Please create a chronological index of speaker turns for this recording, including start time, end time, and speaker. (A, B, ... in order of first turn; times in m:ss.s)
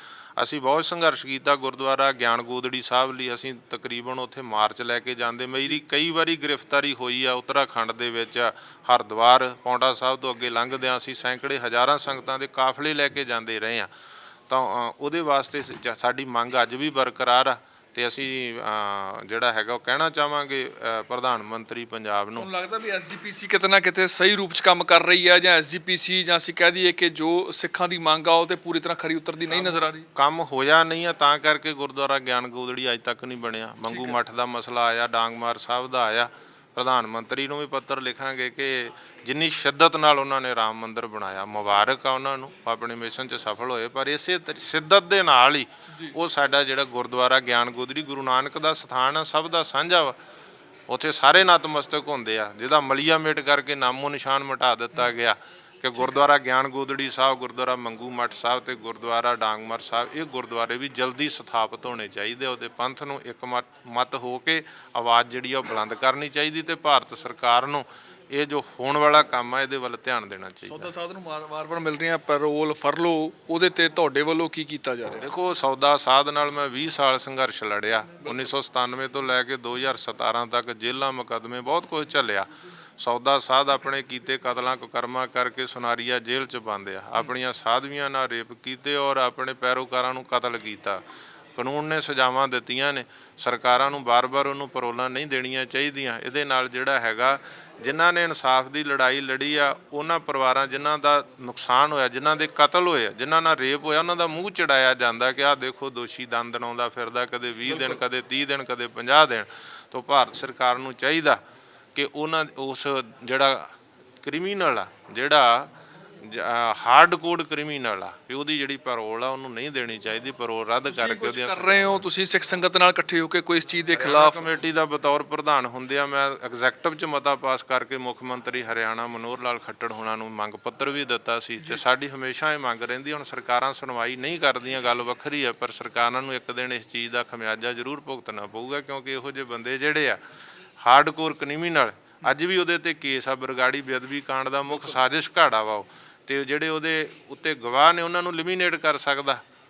0:00.4-0:13.9 A
0:14.5-0:22.5 A
0:22.4-0:30.1 B
0:30.2-0:50.2 A
0:33.9-0:34.2 B
0:50.9-1:10.9 A
1:10.7-1:15.3 B
1:15.2-1:22.5 A
1:23.0-1:31.0 A
1:31.6-1:51.4 A
1:52.0-1:53.7 A
1:54.2-1:55.7 A
1:56.2-2:02.0 A
2:00.9-2:04.4 B
2:04.0-2:20.2 A
2:20.8-2:29.4 A